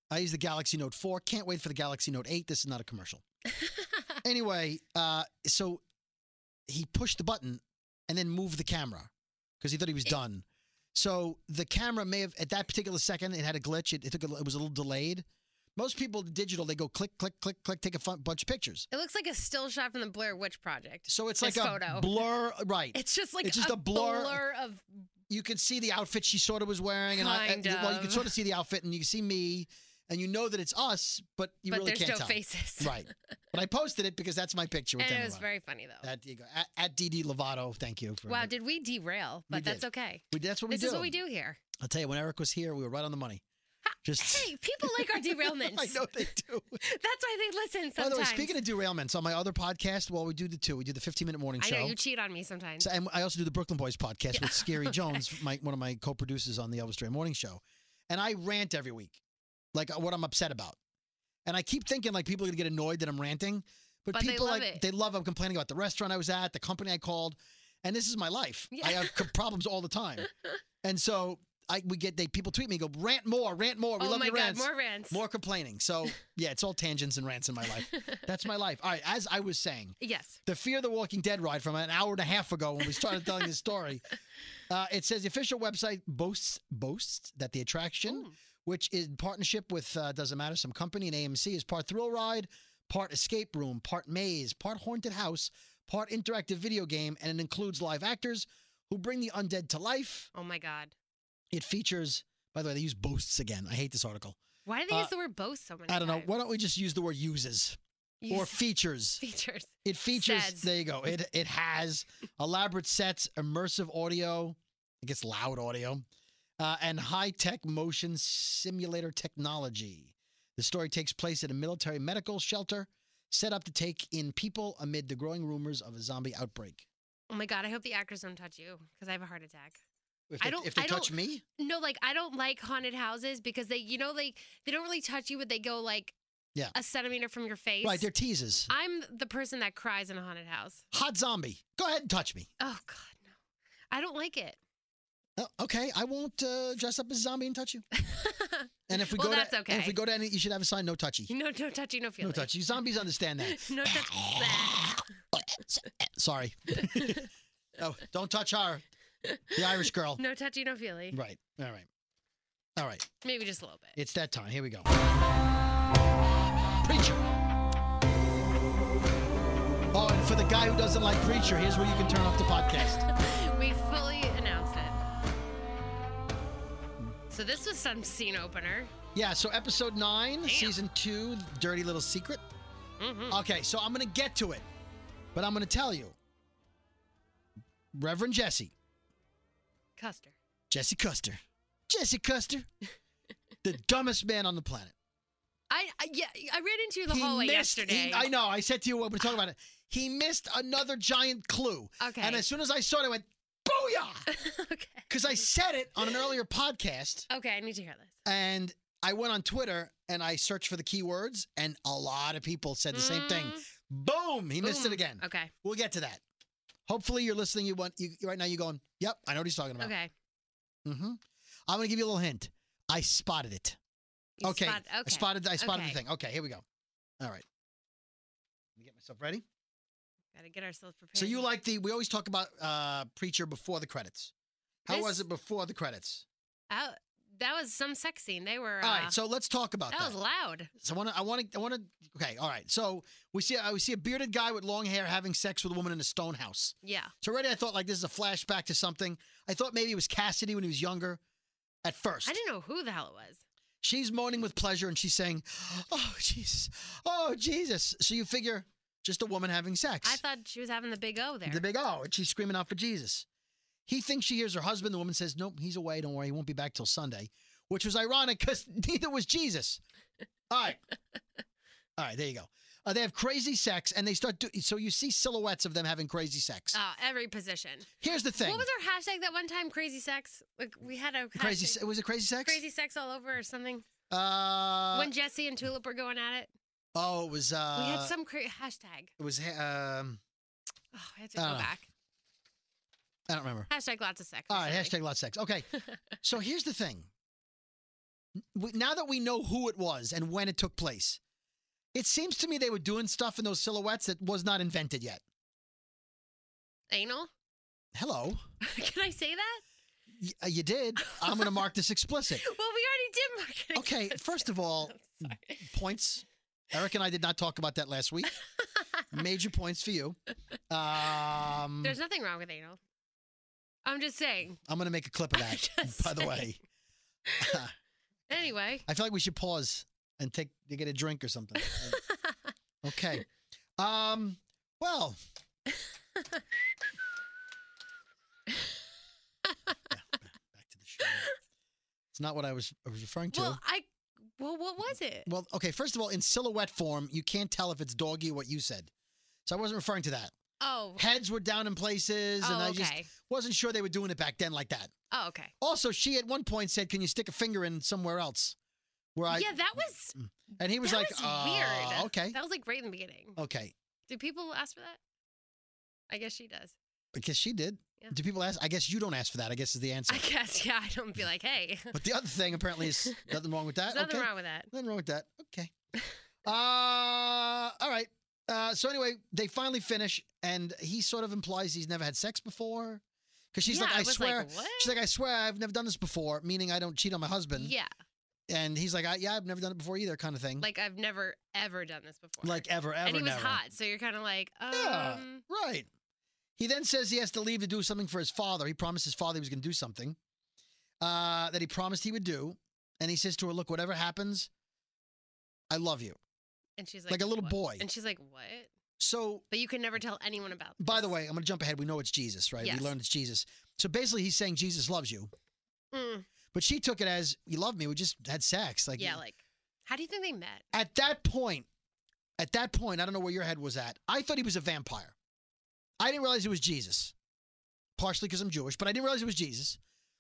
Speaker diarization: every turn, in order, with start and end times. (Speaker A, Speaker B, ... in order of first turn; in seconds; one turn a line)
Speaker A: 0.1-3.2
Speaker A: 4.2-5.8
Speaker A: 6.7-15.2
Speaker A: 15.8-18.9
Speaker B: 18.9-22.2
Speaker A: 21.1-24.4
Speaker B: 22.9-25.1
Speaker A: 25.3-35.5
Speaker B: 27.1-28.3
Speaker B: 31.7-33.1
Speaker B: 35.0-36.1
Speaker A: 36.0-38.5
Speaker B: 38.3-41.6
Speaker A: 39.5-41.2
Speaker A: 41.8-43.4
Speaker B: 43.9-46.3
Speaker A: 44.0-46.8
Speaker B: 46.8-48.6
Speaker A: 48.0-52.0
Speaker B: 51.6-52.9
Speaker A: 52.8-59.2
Speaker B: 54.3-55.3
Speaker A: 59.7-60.8
Speaker A: 61.5-70.3
Speaker B: 64.1-64.8
Speaker B: 68.7-69.3
Speaker A: 70.8-84.0
Speaker B: 74.0-75.2
Speaker B: 77.9-78.2
Speaker B: 80.0-80.4
Speaker A: 84.7-100.3
Speaker B: 88.1-88.3
Speaker B: 100.3-100.9
Speaker A: 101.5-104.4
Speaker B: 104.7-106.3
Speaker A: 105.9-107.8
Speaker B: 108.2-108.6
Speaker A: 108.3-109.2
Speaker B: 109.2-110.7
Speaker A: 109.8-116.0
Speaker A: 116.6-126.9
Speaker B: 127.3-129.8
Speaker A: 130.3-131.4
Speaker B: 130.4-136.2
Speaker B: 136.7-138.1
Speaker A: 137.8-138.7
Speaker B: 138.7-140.8
Speaker A: 140.9-142.5
Speaker B: 142.6-143.3
Speaker B: 143.9-144.6
Speaker A: 145.4-147.9
Speaker B: 148.0-150.0
Speaker A: 148.9-151.3
Speaker B: 151.3-152.8
Speaker A: 152.2-157.3
Speaker B: 153.4-155.1
Speaker B: 156.8-157.3
Speaker A: 157.8-158.8
Speaker B: 159.2-161.2
Speaker A: 159.6-160.2
Speaker A: 161.1-161.9
Speaker A: 162.8-163.1
Speaker B: 163.2-164.0
Speaker A: 164.0-164.9
Speaker A: 166.8-167.2
Speaker A: 169.9-173.1
Speaker B: 172.8-175.0
Speaker B: 177.3-178.9
Speaker A: 179.1-182.4
Speaker B: 180.4-180.8
Speaker B: 183.0-183.4
Speaker A: 183.3-184.7
Speaker A: 185.3-186.2
Speaker A: 187.9-188.7
Speaker B: 190.0-190.3
Speaker A: 190.7-192.7
Speaker A: 193.6-194.9
Speaker B: 195.7-198.3
Speaker A: 197.1-204.3
Speaker B: 202.0-202.5
Speaker B: 204.3-205.1
Speaker A: 205.1-207.3
Speaker B: 207.3-208.2
Speaker A: 208.2-216.2
Speaker B: 212.9-213.7
Speaker B: 214.6-215.5
Speaker A: 216.9-219.9
Speaker B: 219.8-220.1
Speaker A: 220.8-223.8
Speaker B: 224.4-226.0
Speaker A: 224.4-226.6
Speaker A: 227.2-227.5
Speaker A: 228.8-229.4
Speaker B: 230.3-231.5
Speaker A: 231.2-234.3
Speaker A: 234.8-236.2
Speaker B: 234.9-235.2
Speaker B: 236.7-239.2
Speaker A: 238.8-240.2
Speaker B: 239.9-240.7
Speaker A: 240.8-251.2
Speaker B: 246.8-247.1
Speaker A: 251.8-252.4
Speaker B: 252.2-253.4
Speaker A: 253.8-260.2
Speaker B: 260.0-261.6
Speaker A: 261.5-263.3
Speaker A: 263.9-269.8
Speaker A: 270.5-270.8
Speaker A: 272.0-276.8
Speaker B: 276.7-281.8
Speaker A: 278.0-278.7
Speaker A: 281.4-282.6
Speaker B: 282.4-283.9
Speaker A: 284.1-285.1
Speaker B: 284.9-286.5
Speaker A: 286.9-288.2
Speaker B: 287.7-289.1
Speaker A: 289.2-290.2
Speaker B: 290.9-291.9
Speaker A: 291.4-291.7
Speaker A: 293.3-293.7
Speaker B: 293.7-294.9
Speaker A: 294.5-295.7
Speaker A: 296.2-297.1
Speaker A: 298.5-301.2
Speaker A: 301.9-305.2
Speaker B: 306.9-307.3
Speaker A: 307.9-308.4
Speaker B: 308.6-309.6
Speaker A: 310.1-312.4
Speaker B: 311.0-311.5
Speaker B: 312.4-316.0
Speaker A: 313.7-318.3
Speaker A: 319.1-320.2
Speaker A: 320.7-322.0
Speaker B: 321.8-322.8
Speaker B: 323.9-324.6
Speaker A: 324.6-326.6
Speaker B: 325.3-326.5
Speaker B: 327.3-327.6
Speaker A: 327.4-327.7
Speaker B: 328.3-328.9
Speaker A: 328.9-332.0
Speaker B: 331.6-332.4
Speaker A: 332.8-335.2
Speaker B: 339.4-339.7
Speaker A: 339.9-341.3
Speaker B: 341.0-341.3
Speaker A: 342.1-343.6
Speaker B: 343.3-343.9
Speaker B: 344.4-345.3
Speaker A: 345.3-348.9
Speaker A: 349.5-350.3
Speaker B: 350.6-351.1
Speaker A: 351.0-354.9
Speaker B: 352.4-353.1
Speaker B: 355.1-355.5
Speaker A: 355.6-358.6
Speaker A: 359.1-362.4
Speaker B: 359.3-360.2
Speaker B: 360.8-363.4
Speaker A: 363.4-363.7
Speaker B: 364.1-365.0
Speaker B: 366.1-366.8
Speaker A: 367.1-370.3
Speaker B: 370.1-372.0
Speaker A: 371.9-375.7
Speaker B: 372.8-373.3
Speaker B: 373.9-374.7
Speaker A: 376.4-383.0
Speaker A: 383.5-387.7
Speaker B: 383.6-385.0
Speaker B: 387.6-387.9
Speaker A: 388.5-390.7
Speaker B: 390.6-395.4
Speaker A: 392.4-393.6
Speaker A: 394.7-395.9
Speaker A: 396.6-400.2
Speaker A: 401.0-404.5
Speaker A: 405.7-406.2
Speaker B: 406.8-408.7
Speaker A: 407.1-407.9
Speaker A: 409.0-409.4
Speaker B: 409.5-411.1
Speaker A: 410.8-415.3
Speaker B: 412.6-412.9
Speaker B: 415.9-416.3
Speaker A: 416.5-419.2
Speaker B: 419.0-420.7
Speaker A: 420.7-421.7
Speaker A: 422.4-425.1
Speaker A: 426.0-427.1
Speaker A: 428.0-429.8